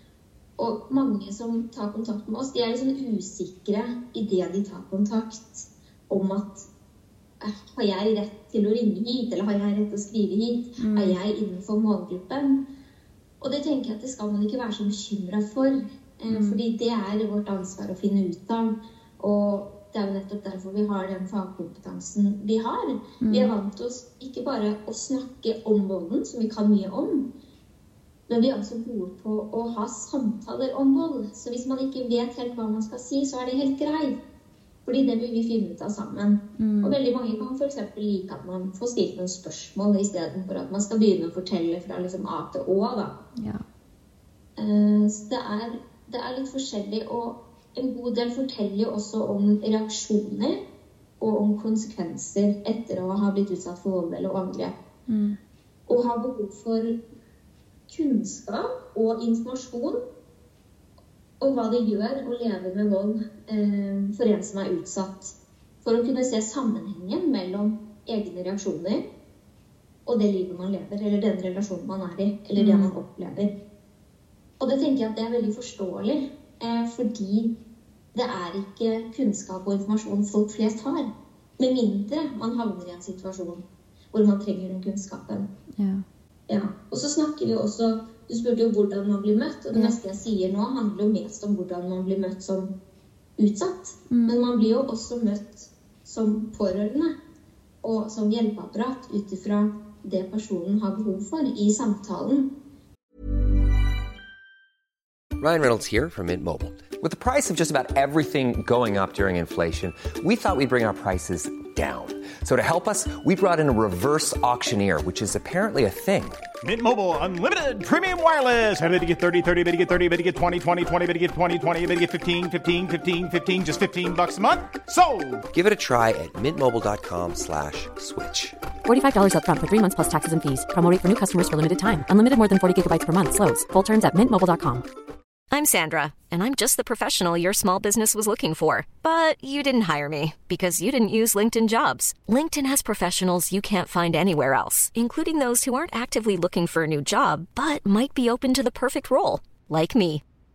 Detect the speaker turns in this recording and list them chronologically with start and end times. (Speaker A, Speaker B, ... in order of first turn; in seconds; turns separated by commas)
Speaker A: 0.6-6.7, Speaker A: 7.4-12.6, Speaker B: 10.8-11.2, Speaker A: 13.4-27.3, Speaker B: 16.3-16.6, Speaker B: 23.2-23.5, Speaker A: 28.3-34.2, Speaker A: 34.8-43.2, Speaker B: 36.6-36.9, Speaker B: 43.4-43.6, Speaker A: 44.6-50.6, Speaker A: 51.2-54.7, Speaker B: 55.1-55.4, Speaker A: 55.9-57.0, Speaker A: 57.9-60.0, Speaker A: 61.4-69.0, Speaker A: 70.0-73.5, Speaker B: 72.6-72.9, Speaker A: 74.6-77.5, Speaker A: 78.1-85.5, Speaker B: 85.8-86.0, Speaker A: 86.5-92.7, Speaker A: 93.4-97.1, Speaker B: 94.1-94.3, Speaker A: 97.8-102.5, Speaker C: 105.4-116.4, Speaker D: 116.6-125.4, Speaker C: 125.5-128.6, Speaker E: 128.8-134.8, Speaker F: 135.5-150.2